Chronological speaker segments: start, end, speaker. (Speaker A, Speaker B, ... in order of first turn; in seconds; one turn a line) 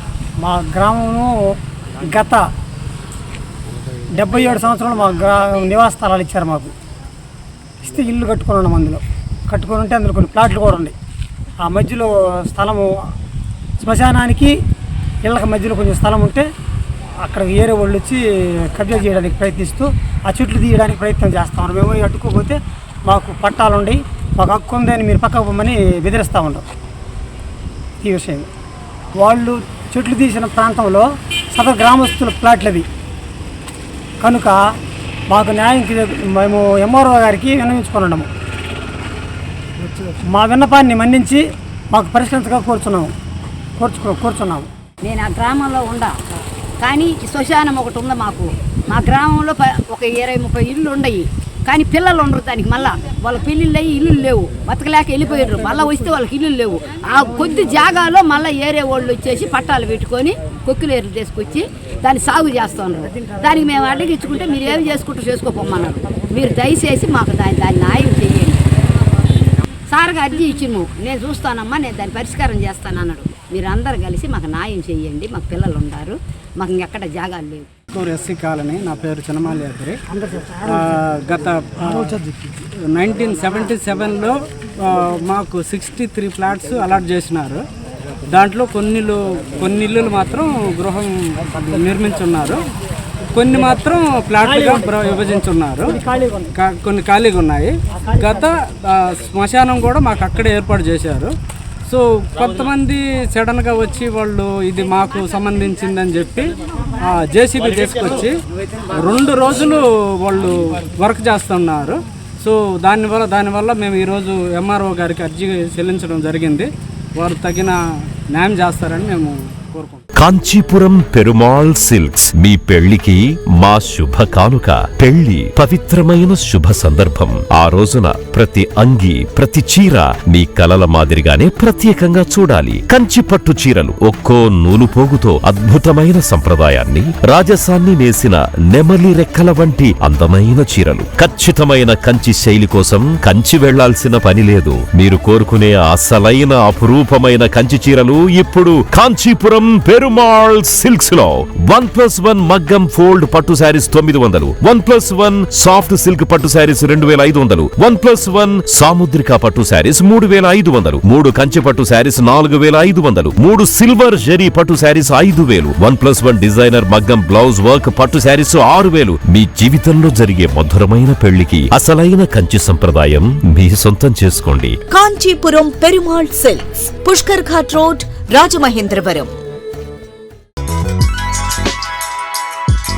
Speaker A: 0.4-1.3
Speaker A: 2.1-2.4
Speaker A: 4.2-6.7
Speaker A: 7.8-10.9
Speaker A: 11.6-12.9
Speaker A: 13.8-14.5
Speaker A: 15.2-16.4
Speaker A: 17.2-26.6
Speaker A: 28.0-28.5
Speaker A: 29.2-32.9
Speaker A: 34.2-34.6
Speaker A: 35.3-38.3
Speaker A: 40.3-41.4
Speaker A: 41.9-43.1
Speaker A: 43.8-44.7
Speaker B: 45.0-46.1
Speaker B: 46.8-68.7
Speaker B: 69.9-77.7
Speaker C: 77.9-80.0
Speaker A: 80.2-80.6
Speaker C: 80.7-87.6
Speaker A: 81.9-82.2
Speaker C: 88.3-92.6
Speaker C: 93.3-96.0
Speaker A: 94.4-94.9
Speaker A: 95.9-96.5
Speaker C: 96.5-101.3
Speaker C: 101.9-108.3
Speaker C: 108.9-117.8
Speaker C: 118.3-120.0
Speaker D: 120.2-174.8
Speaker E: 174.9-179.3